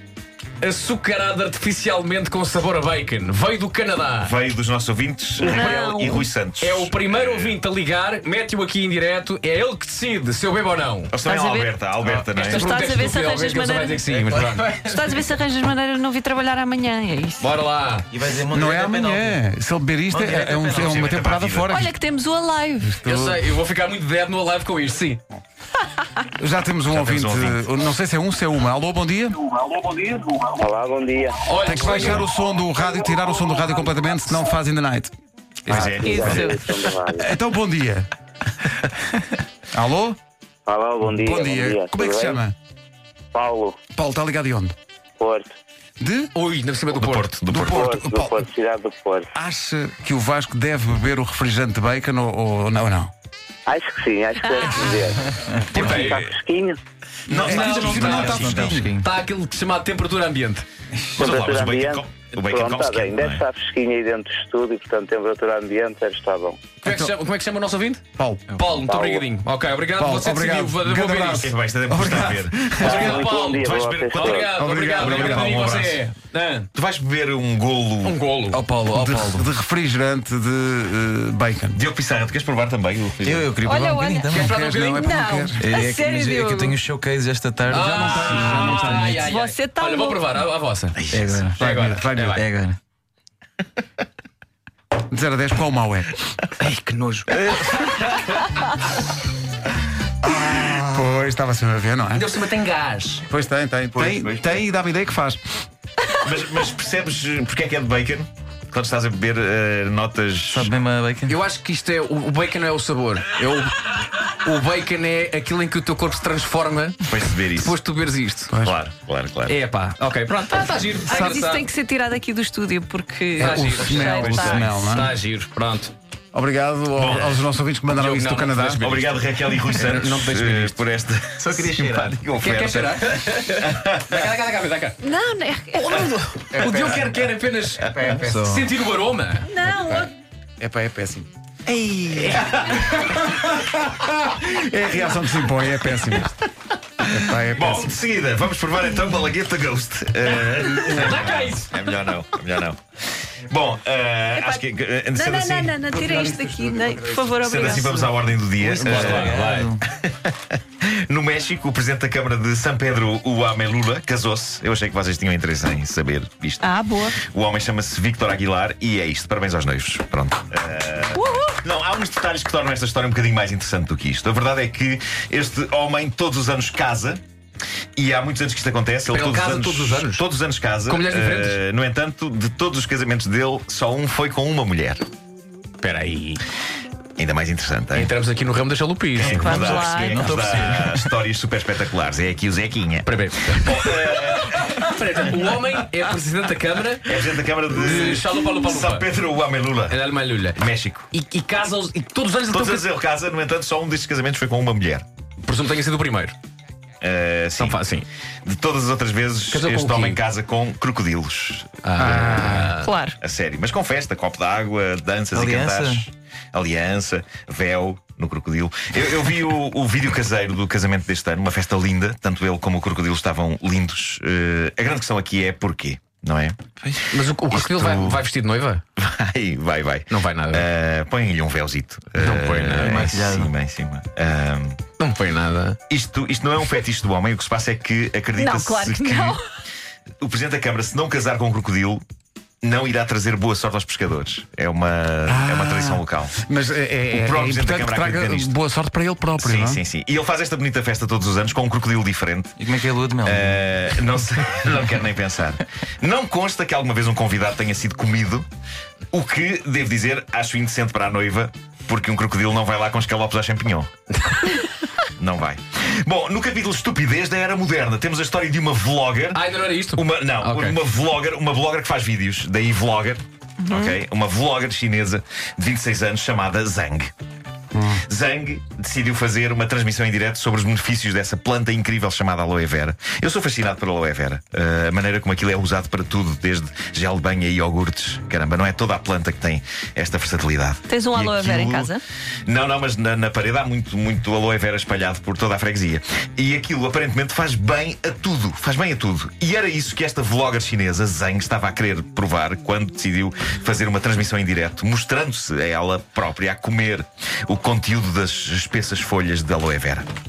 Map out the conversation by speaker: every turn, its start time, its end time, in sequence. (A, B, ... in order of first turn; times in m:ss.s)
0:00.6-0:04.3 A
0:04.2-0:07.6 B
0:05.4-0:05.8 A
0:05.4-0:06.2 C
0:06.6-0:11.2 A
0:11.1-0:12.7 B
0:11.2-0:11.7 C
0:12.4-0:14.8 A
0:12.4-0:14.0 C
0:14.1-0:15.0 D
0:14.8-0:17.5 C
0:17.4-0:18.1 A
0:18.1-0:19.4 D
0:18.5-0:21.9 E
0:20.1-0:21.2 D
0:20.6-0:21.8 B
0:21.7-0:23.0 C
0:22.8-0:23.4 E
0:23.0-0:25.2 A
0:26.4-0:29.5 E
0:26.9-0:27.7 B
0:30.3-0:32.2 F
0:31.4-0:32.3 A
0:31.6-0:35.1 E
0:35.7-0:36.0 E
0:35.7-0:36.6 B
0:35.7-0:37.3 F
0:36.0-0:36.6 C
0:37.2-0:38.1 E
0:39.7-0:40.2 E
0:40.7-0:42.4 F
0:41.2-0:42.5 E
0:43.3-0:43.8 F
0:43.9-0:44.8 E
0:45.2-0:45.5 F
0:46.0-0:46.3 E
0:46.3-0:47.7 A
0:46.9-0:47.9 B
0:47.5-0:48.4 E
0:47.6-0:49.3 F
0:49.3-0:53.1 E
0:53.7-0:56.8 F
0:54.6-0:54.9 C
0:55.7-0:56.2 A
0:55.7-0:56.3 B
0:57.3-0:58.9 E
0:57.3-0:59.0 B
0:57.4-0:58.4 A
0:58.2-0:59.1 D
0:59.0-1:00.7 A
1:01.2-1:03.4 B
1:01.2-1:06.6 F
1:06.8-1:08.0 A
1:06.8-1:07.1 E
1:08.2-1:08.4 E
1:08.5-1:08.8 D
1:08.5-1:11.5 A
1:08.8-1:09.2 F
1:10.0-1:13.3 E
1:11.3-1:16.0 B
1:12.8-1:16.7 A
1:12.8-1:14.5 F
1:14.5-1:15.6 E
1:16.7-1:18.2 B
1:18.0-1:18.6 A
1:18.5-1:19.5 D
1:18.9-1:21.8 E
1:21.7-1:23.6 B
1:23.2-1:24.6 D
1:23.6-1:24.3 C
1:24.3-1:25.0 A
1:24.3-1:25.7 E
1:24.9-1:26.8 C
1:25.6-1:29.3 D
1:27.7-1:31.0 A
1:27.9-1:29.2 E
1:29.2-1:30.4 C
1:31.0-1:31.4 B
1:31.1-1:32.8 D
1:31.6-1:32.4 A
1:31.6-1:32.3 E
1:35.1-1:36.1 E
1:36.6-1:38.2 A
1:40.2-1:42.2 E
1:42.1-1:43.2 A
1:43.3-1:45.4 E
1:44.0-1:44.6 D
1:46.2-1:50.7 B
1:50.5-1:51.4 D
1:51.3-1:58.5 A
1:57.1-1:57.8 B
1:58.6-1:59.6 B
1:59.5-2:01.7 A
2:01.0-2:01.4 E
2:01.1-2:04.7 C
2:03.4-2:05.9 A
2:03.4-2:05.1 E
2:06.3-2:08.9 E
2:07.0-2:07.4 B
2:07.9-2:10.8 A
2:08.8-2:14.2 B
2:11.4-2:12.2 D
2:12.4-2:15.0 A
2:15.0-2:16.2 C
2:15.8-2:19.5 A
2:16.6-2:17.0 D
2:16.6-2:17.0 B
2:17.9-2:18.8 D
2:19.5-2:20.1 C
2:19.7-2:20.1 E
2:20.6-2:21.3 E
2:21.6-2:23.0 B
2:22.1-2:23.0 A
2:23.7-2:26.3 E
2:27.0-2:27.9 E
2:27.5-2:35.8 B
2:30.7-2:31.9 A
2:35.1-2:38.1 C
2:35.9-2:37.2 E
2:37.4-2:57.2 B
2:38.6-2:39.8 D
2:38.8-2:39.4 A
2:46.6-2:47.2 C
2:51.2-2:51.5 C
2:58.0-3:05.0 B
2:59.1-3:00.2 A
3:00.9-3:01.6 A
3:05.8-3:06.4 A
3:07.2-3:08.1 B
3:07.9-3:09.6 A
3:09.1-3:14.8 B
3:09.2-3:11.1 D
3:09.3-3:10.6 C
3:13.0-3:17.2 A
3:17.0-3:20.0 B
3:17.7-3:19.1 A
3:19.9-3:20.6 A
3:20.6-3:21.1 B
3:21.1-3:22.9 A
3:22.5-3:25.0 B
3:25.4-3:26.4 A
3:27.0-3:32.6 B
3:27.6-3:28.0 A
3:29.5-3:30.2 A
3:31.8-3:33.0 A
3:32.0-3:32.7 E
3:32.7-3:33.1 C
3:33.2-3:46.6 B
3:35.3-3:36.0 D
3:47.1-3:48.8 A
3:47.2-3:48.2 B
3:49.0-3:54.8 B
3:50.1-3:50.6 A
3:52.2-3:53.2 A
3:52.2-3:53.5 D
3:55.0-3:55.8 A
3:55.9-3:59.4 B
3:58.4-3:59.4 C
4:00.2-4:02.0 B
4:02.6-4:06.4 B
4:05.3-4:09.8 E
4:07.1-4:08.6 B
4:09.4-4:12.6 B
4:12.6-4:13.6 D
4:13.2-4:18.5 B
4:19.1-4:23.9 B
4:24.2-4:24.5 A
4:25.2-4:37.1 B
4:29.3-4:30.8 A
4:33.6-4:33.9 C
4:37.7-4:38.0 E
4:38.1-4:51.9 B
4:50.9-4:52.0 C
4:52.5-5:10.1 B